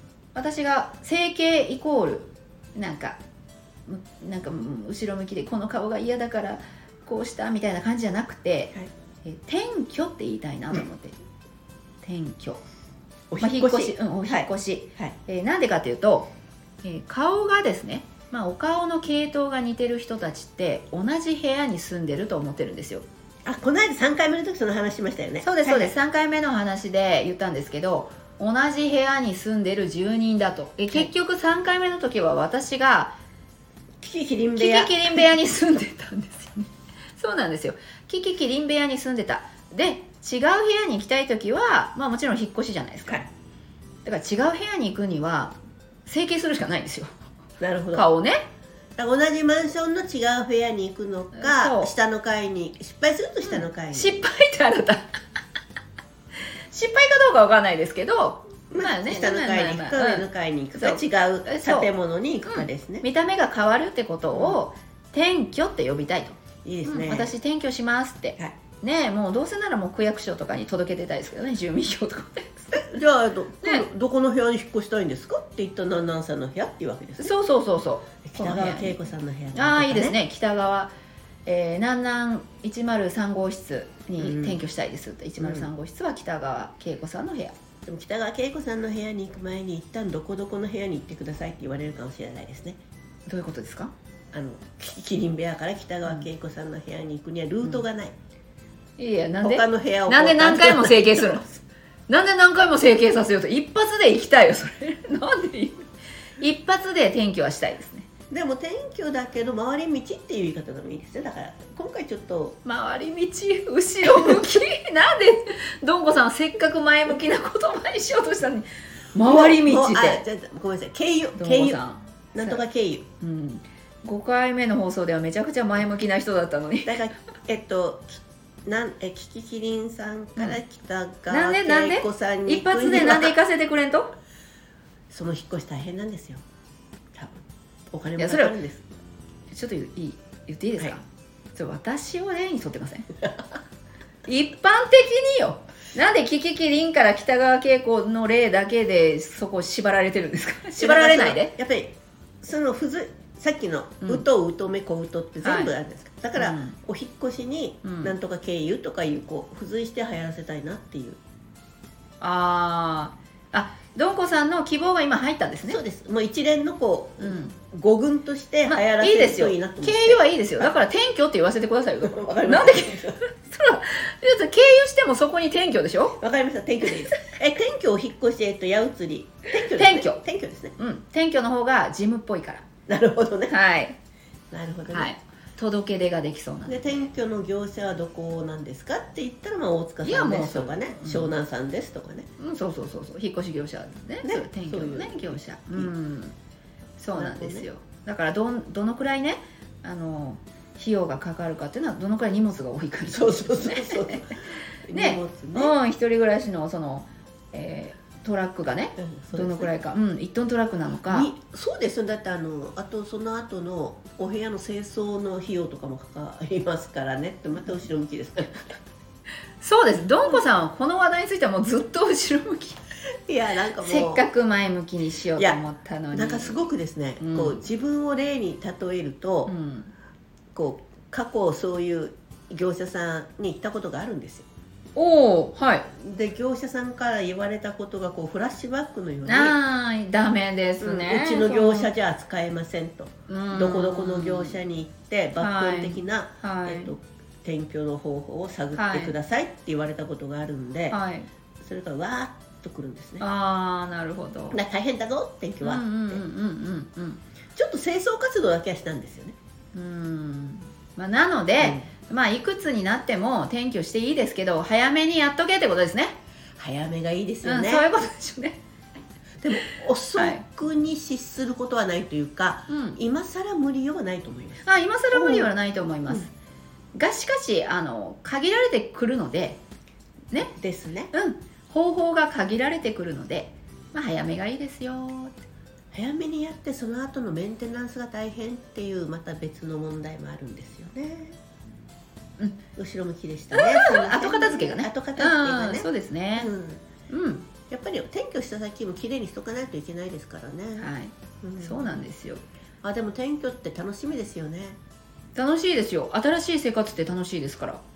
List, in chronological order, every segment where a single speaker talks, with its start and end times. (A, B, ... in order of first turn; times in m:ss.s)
0:00.4-0:03.2 A
0:03.9-0:11.2 A
0:12.0-0:12.6 A
0:13.3-0:15.2 B
0:13.4-0:16.3 A
0:16.8-0:23.0 A
0:23.4-0:25.9 B
0:25.4-0:33.2 A
0:34.0-0:35.3 B
0:34.6-0:43.2 A
0:44.0-0:47.1 A
0:47.6-0:48.1 B
0:47.9-0:48.5 A
0:49.0-0:54.2 B
0:51.4-0:51.9 A
0:53.4-0:55.2 A
0:56.7-1:01.9 A
0:58.7-1:03.1 B
1:02.4-1:13.0 A
1:04.3-1:04.6 B
1:06.6-1:07.3 B
1:12.7-1:17.3 B
1:17.2-1:19.0 A
1:18.2-1:20.2 B
1:19.5-1:20.9 A
1:21.5-1:27.5 A
1:24.2-1:24.6 B
1:25.4-1:25.7 B
1:27.9-1:32.8 B
1:33.3-1:33.9 A
1:34.3-1:38.2 B
1:39.0-1:41.5 A
1:39.4-1:41.6 B
1:42.1-1:45.9 A
1:46.4-1:48.1 A
1:48.3-1:52.6 B
1:52.6-2:00.2 A
1:54.1-1:54.5 B
1:59.2-2:01.8 B
2:01.4-2:02.6 A
2:02.3-2:03.1 B
2:03.2-2:07.0 A
2:06.9-2:13.4 B
2:11.3-2:14.1 A
2:15.1-2:16.4 B
2:17.1-2:18.8 B
2:18.2-2:18.6 A
2:19.5-2:21.0 A
2:21.6-2:23.1 A
2:24.3-2:31.5 A
2:30.8-2:41.2 B
2:35.4-2:35.7 A
2:36.4-2:36.8 A
2:37.8-2:38.2 A
2:42.2-2:45.8 A
2:45.6-2:50.7 B
2:47.2-2:47.6 A
2:48.7-2:56.2 A
2:52.0-2:53.2 B
2:56.2-3:00.7 B
2:59.7-3:00.2 A
3:00.8-3:02.7 A
3:02.9-3:03.6 B
3:03.5-3:04.0 A
3:04.5-3:05.1 B
3:04.9-3:07.0 A
3:06.7-3:12.3 B
3:10.0-3:11.3 A
3:12.4-3:16.4 A
3:14.2-3:15.9 B
3:17.0-3:24.3 A
3:17.1-3:17.7 B
3:23.1-3:25.8 B
3:24.9-3:31.3 A
3:29.0-3:29.7 B
3:31.1-3:38.8 B
3:39.6-3:42.8 A
3:43.3-3:44.2 B
3:43.8-3:46.6 A
3:46.1-3:49.5 B
3:47.2-3:47.6 A
3:49.5-3:49.9 A
3:50.5-3:54.5 B
3:55.0-3:55.9 A
3:56.0-3:59.6 B
3:59.3-4:01.9 A
4:00.8-4:11.0 B
4:03.3-4:04.6 A
4:05.4-4:06.9 A
4:08.7-4:09.1 A
4:10.9-4:11.3 A
4:11.6-4:13.2 B
4:13.2-4:14.6 A
4:14.5-4:16.2 B
4:15.6-4:17.2 A
4:17.6-4:19.4 B
4:19.7-4:26.2 A
4:21.6-4:21.9 B
4:26.6-4:27.9 B
4:27.4-4:28.6 A
4:29.4-4:35.5 B
4:30.2-4:30.4 A
4:32.7-4:33.0 A
4:34.6-4:36.3 A
4:36.9-4:39.6 A
4:40.4-4:41.1 B
4:41.1-4:45.4 A
4:45.9-4:51.4 B
4:52.8-4:56.8 B
4:53.5-4:56.5 A
4:57.1-4:57.5 A
4:57.7-5:00.9 B
5:00.8-5:02.4 A
5:01.4-5:02.0 B
5:02.8-5:04.8 B
5:05.4-5:07.8 A